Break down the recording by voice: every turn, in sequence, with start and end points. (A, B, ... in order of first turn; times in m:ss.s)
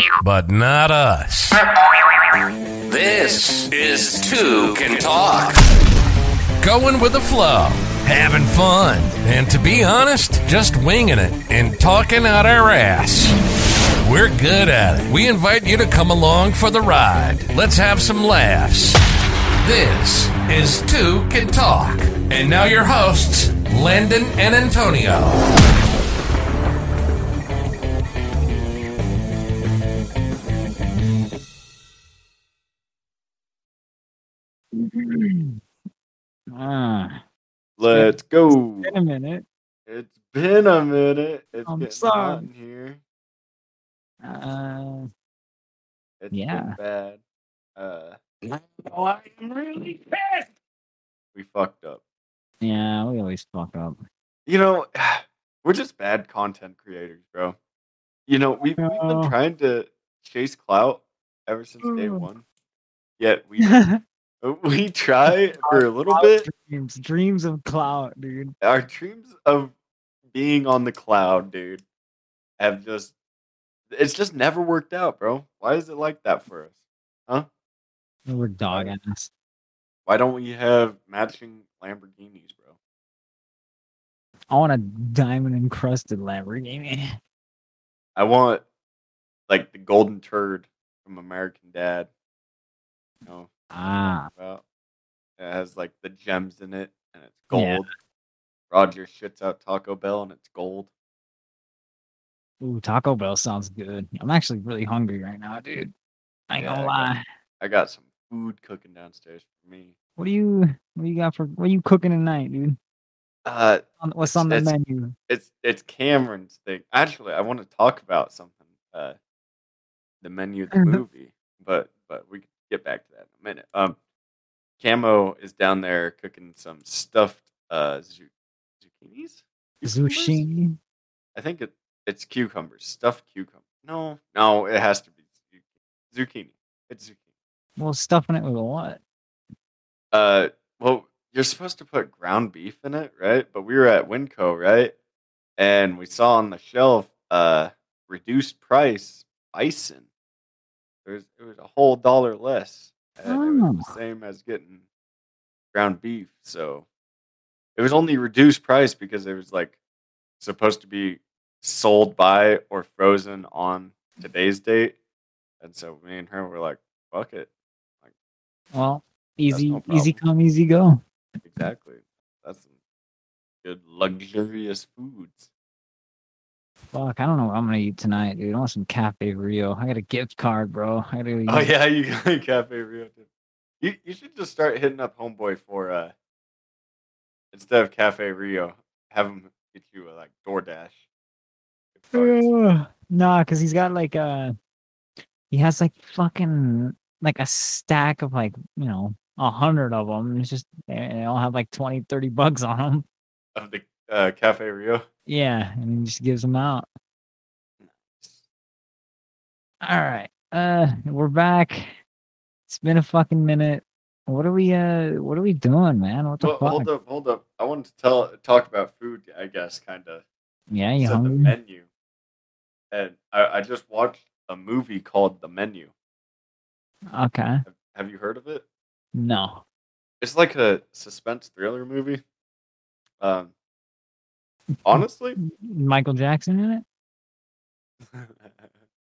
0:00.1-0:01.7 A
0:02.9-0:05.6 A
0:06.6-0:13.4 A
0:14.0-0:19.0 A
0:19.6-0:25.4 A
0:34.7-0:35.6 B
0:36.5-0:37.2 B
0:37.8-0:38.9 C
0:37.9-0:39.4 B
0:39.9-0:43.0 C
0:41.6-0:42.5 B
0:44.2-0:45.1 B
0:46.2-0:47.2 C
0:46.3-0:46.8 B
0:47.8-0:48.2 C
0:48.8-0:50.3 A
0:51.4-0:52.0 C
0:52.6-0:54.0 B
0:54.5-0:57.6 C
0:58.3-1:02.4 C
0:58.8-0:59.4 B
1:01.8-1:02.3 B
1:03.2-1:03.9 C
1:03.6-1:04.0 B
1:04.4-1:06.5 C
1:05.3-1:08.5 B
1:08.6-1:09.7 C
1:10.3-1:11.8 C
1:12.6-1:13.1 C
1:13.9-1:16.7 C
1:18.3-1:19.3 B
1:20.1-1:22.8 C
1:24.5-1:27.2 B
1:28.2-1:28.6 C
1:29.5-1:32.1 C
1:33.7-1:34.3 B
1:34.4-1:34.6 C
1:35.4-1:37.9 C
1:37.5-1:37.8 B
1:38.7-1:40.9 C
1:42.6-1:45.9 B
1:46.5-1:47.2 B
1:46.6-1:47.1 C
1:47.6-1:50.0 C
1:50.2-1:52.8 B
1:53.4-1:54.7 C
1:54.0-1:55.2 B
1:55.3-1:59.2 C
2:00.2-2:04.0 C
2:00.7-2:01.0 B
2:04.8-2:08.3 C
2:08.9-2:10.4 C
2:09.8-2:10.8 B
2:11.4-2:15.2 C
2:16.1-2:17.2 C
2:17.8-2:19.0 B
2:20.1-2:24.9 C
2:25.6-2:30.1 C
2:31.0-2:34.8 C
2:33.3-2:33.9 B
2:35.7-2:36.8 C
2:37.8-2:39.8 C
2:40.4-2:45.0 C
2:45.6-2:47.5 C
2:48.7-2:51.0 B
2:49.5-2:50.2 C
2:51.4-2:52.7 C
2:53.6-2:55.5 C
2:56.9-3:01.7 B
3:01.5-3:03.3 C
3:03.8-3:06.1 C
3:07.5-3:11.0 C
3:12.0-3:12.5 C
3:12.1-3:14.5 B
3:15.5-3:23.0 B
3:23.6-3:25.0 C
3:25.3-3:26.9 B
3:27.8-3:28.4 C
3:29.8-3:32.0 B
3:32.7-3:36.9 B
3:36.4-3:40.2 C
3:40.7-3:41.5 B
3:41.0-3:41.9 C
3:42.9-3:45.9 C
3:47.1-3:47.6 B
3:47.7-3:48.6 C
3:49.2-3:49.6 B
3:50.2-3:52.2 C
3:53.2-3:53.5 C
3:54.7-3:56.8 B
3:54.8-3:55.4 C
3:58.1-3:58.5 C